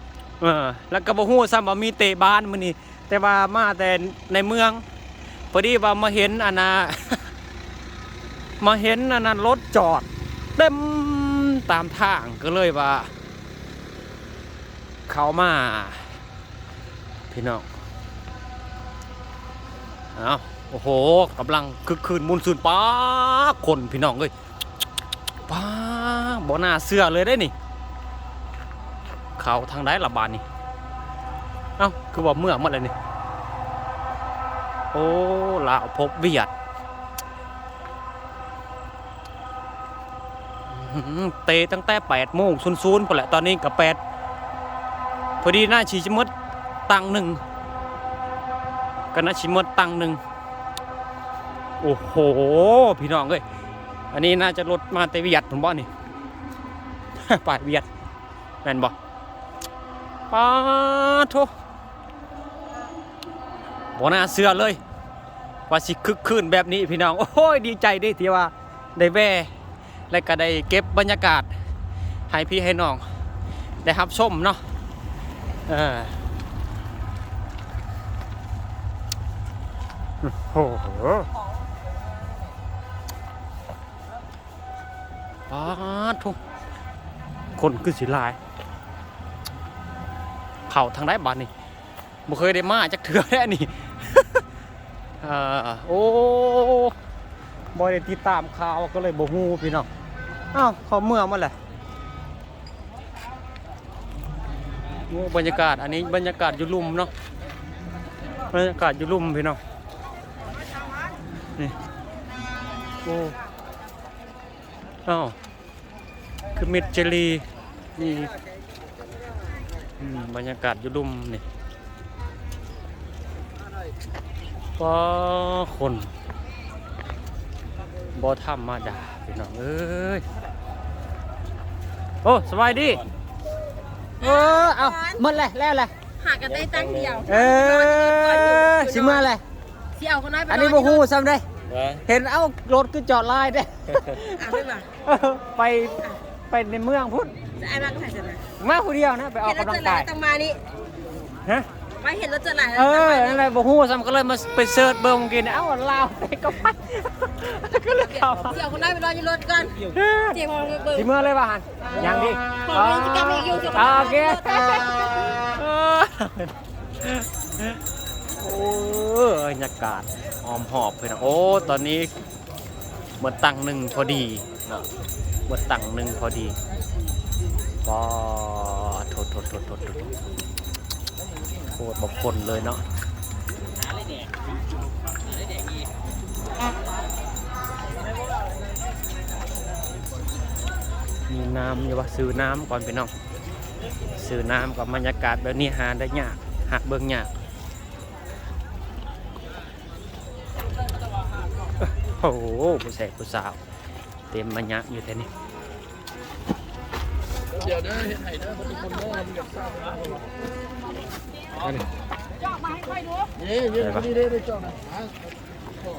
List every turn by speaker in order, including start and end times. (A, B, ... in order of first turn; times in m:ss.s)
0:00.4-0:04.8 A
0:05.5-0:07.2 A
0:08.6-0:13.1 A
0:15.1-0:16.0 A
0:17.3-0:17.7 A
0:20.2-0:24.3 A
0:25.5-0:27.5 A
0:29.4-0:30.4 A
0:31.8-0:32.9 A
0:34.9-0:36.5 A
0:40.7-0:44.0 A
0:45.4-0:46.3 A
0:46.9-0:47.4 A
0:49.1-0:50.2 A
0:51.8-0:53.4 A
0:54.1-0:55.9 A
0:57.2-0:57.9 A
0:58.6-0:59.0 A
1:00.3-1:01.5 A
1:04.0-1:04.8 A
1:05.7-1:09.5 A
1:10.1-1:11.5 A
1:12.3-1:13.0 A
1:13.8-1:14.6 A
1:15.7-1:16.2 A
1:20.2-1:21.3 A
1:25.5-1:26.4 A
1:27.6-1:28.4 A
1:30.7-1:31.5 A
1:32.3-1:34.4 A
1:35.2-1:36.9 A
1:37.7-1:39.9 A
1:40.5-1:41.6 A
1:45.1-1:47.1 A
1:48.5-1:49.6 A
1:53.0-1:53.4 A
1:55.1-1:55.4 A
1:56.6-1:57.4 A
1:58.0-1:58.3 A
2:00.0-2:01.4 A
2:04.8-2:06.1 A
2:08.2-2:10.2 A
2:12.2-2:13.0 A
2:14.2-2:15.2 B
2:14.2-2:15.9 A
2:16.2-2:19.3 B
2:17.3-2:19.4 A
2:20.0-2:21.0 B
2:20.5-2:21.4 A
2:22.1-2:27.4 A
2:24.4-2:24.9 B
2:27.6-2:28.4 B
2:28.6-2:30.1 A
2:29.4-2:30.6 B
2:32.0-2:33.4 B
2:32.8-2:38.6 A
2:38.0-2:41.1 B
2:39.9-2:40.4 A
2:40.9-2:47.8 A
2:42.0-2:44.9 B
2:48.4-2:52.1 A
2:53.2-2:54.8 A
2:55.5-2:56.6 A
2:57.8-3:00.1 A
3:01.8-3:02.8 A
3:11.3-3:13.1 A
3:14.2-3:17.3 A
3:22.2-3:23.6 A
3:24.3-3:25.3 A
3:27.5-3:30.2 C
3:33.4-3:35.0 C
3:33.8-3:34.1 A